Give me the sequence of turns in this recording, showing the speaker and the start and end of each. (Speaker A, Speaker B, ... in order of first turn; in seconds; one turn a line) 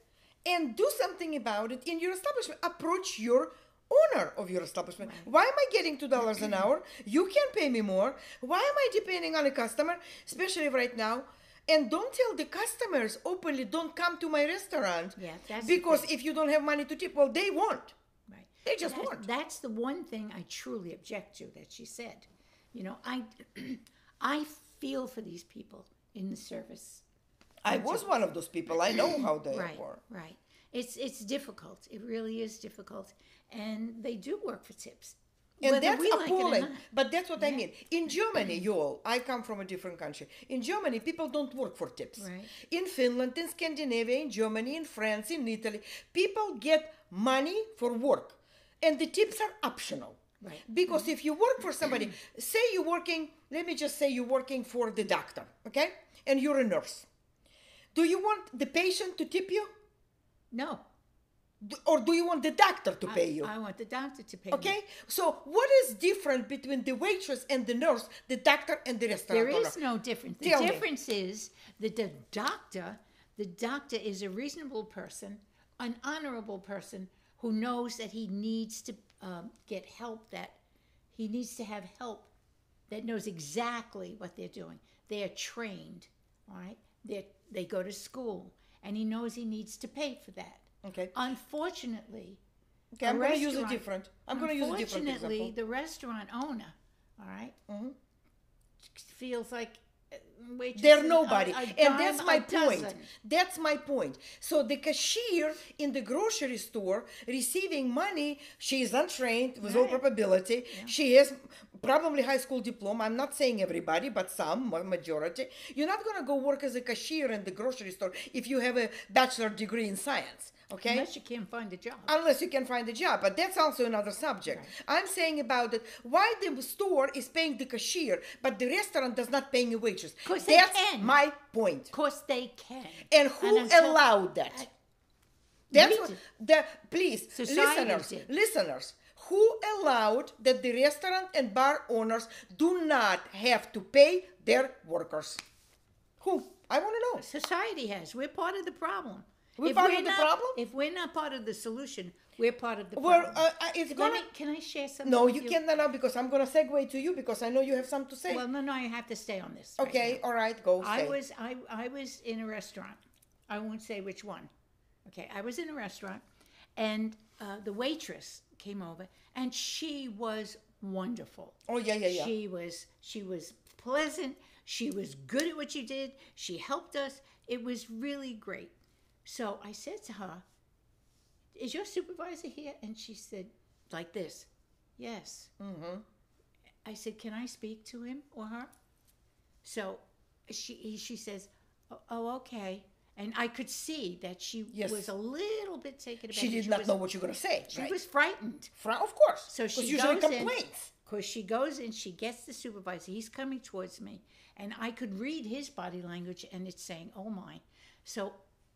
Speaker A: 0.4-17.9
Speaker B: 5.0-5.3
Speaker B: 15.2-16.1
Speaker B: 18.3-27.0
Speaker A: 18.6-19.2
Speaker A: 27.6-30.0
Speaker B: 27.7-28.1
Speaker B: 29.5-36.9
Speaker A: 35.6-57.1
Speaker B: 37.4-37.6
Speaker B: 38.3-38.6
Speaker B: 42.2-42.5
Speaker B: 50.4-51.1
Speaker A: 57.9-59.7
Speaker B: 60.5-60.8
Speaker A: 61.6-63.5
Speaker B: 63.1-64.8
Speaker A: 64.5-69.8
Speaker B: 69.3-80.6
Speaker A: 70.4-70.8
Speaker B: 81.1-82.3
Speaker B: 82.9-92.4
Speaker A: 90.8-91.1
Speaker A: 92.9-95.5
Speaker B: 93.0-97.5
Speaker A: 97.7-97.9
Speaker B: 98.8-103.1
Speaker A: 100.8-121.1
Speaker B: 109.6-110.0
Speaker B: 120.8-122.1
Speaker A: 122.1-131.9
Speaker B: 124.5-124.7
Speaker B: 130.2-131.2
Speaker B: 131.9-134.7
Speaker A: 133.1-134.6
Speaker B: 135.7-136.2
Speaker A: 135.7-145.4
Speaker B: 137.3-138.3
Speaker A: 146.2-147.2
Speaker B: 147.2-155.6
Speaker A: 149.6-150.6
Speaker A: 152.9-154.2
Speaker A: 155.0-158.4
Speaker B: 158.3-160.2
Speaker A: 159.8-161.2
Speaker B: 160.8-164.5
Speaker B: 165.1-166.2
Speaker B: 166.8-178.7
Speaker A: 171.7-172.3
Speaker B: 179.2-180.4
Speaker B: 181.5-185.5
Speaker A: 185.6-186.0
Speaker B: 186.8-188.7
Speaker B: 189.6-197.0
Speaker A: 194.7-195.1
Speaker A: 196.3-198.0
Speaker B: 197.7-198.7
Speaker A: 198.8-200.9
Speaker B: 199.5-208.4